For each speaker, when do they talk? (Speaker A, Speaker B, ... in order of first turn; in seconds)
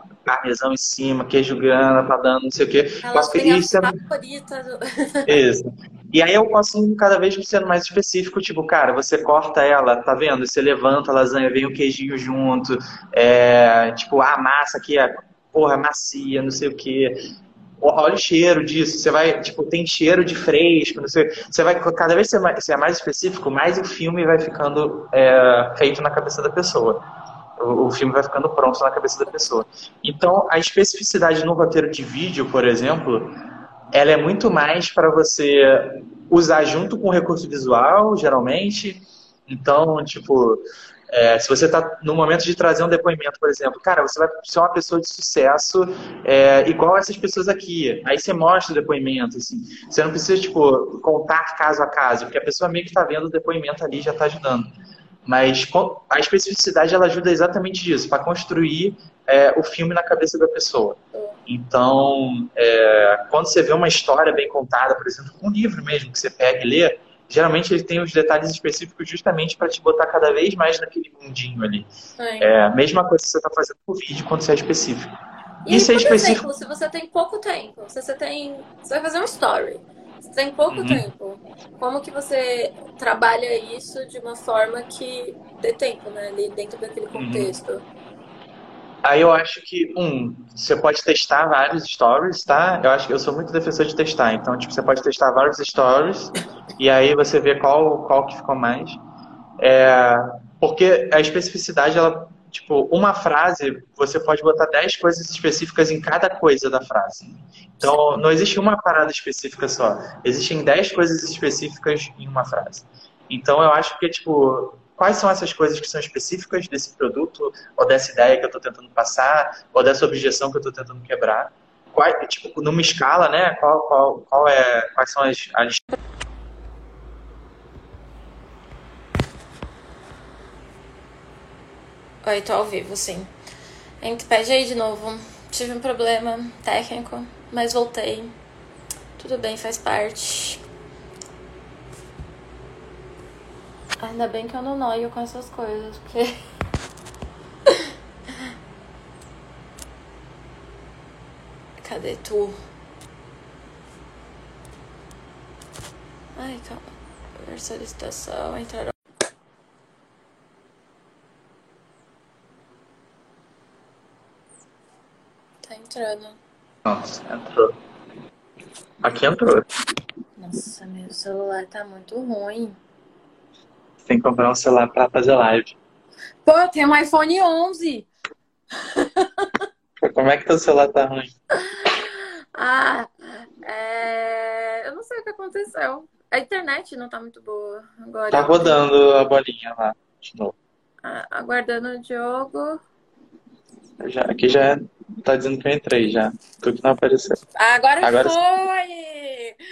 Speaker A: 0.2-3.9, 5.3-17.1, 17.8-27.0, 27.6-33.3, 33.9-54.7, 55.2-71.9, 72.4-75.1, 75.7-76.4, 80.7-81.0, 87.1-87.5, 89.0-99.0, 99.6-125.8, 166.8-167.7, 169.0-169.7, 174.1-175.8, 180.0-181.3, 188.3-190.6, 194.0-197.4, 198.0-198.4
Speaker B: 3.0-5.4, 61.1-61.4, 72.2-72.5, 75.7-87.8, 107.8-108.0, 132.2-133.3, 134.0-138.3, 139.2-140.6, 144.0-146.3, 151.8-152.6, 156.4-158.9, 165.6-166.4, 170.4-172.7, 176.4-178.1, 178.8-179.6, 181.5-188.8, 191.0-192.8, 197.6-199.6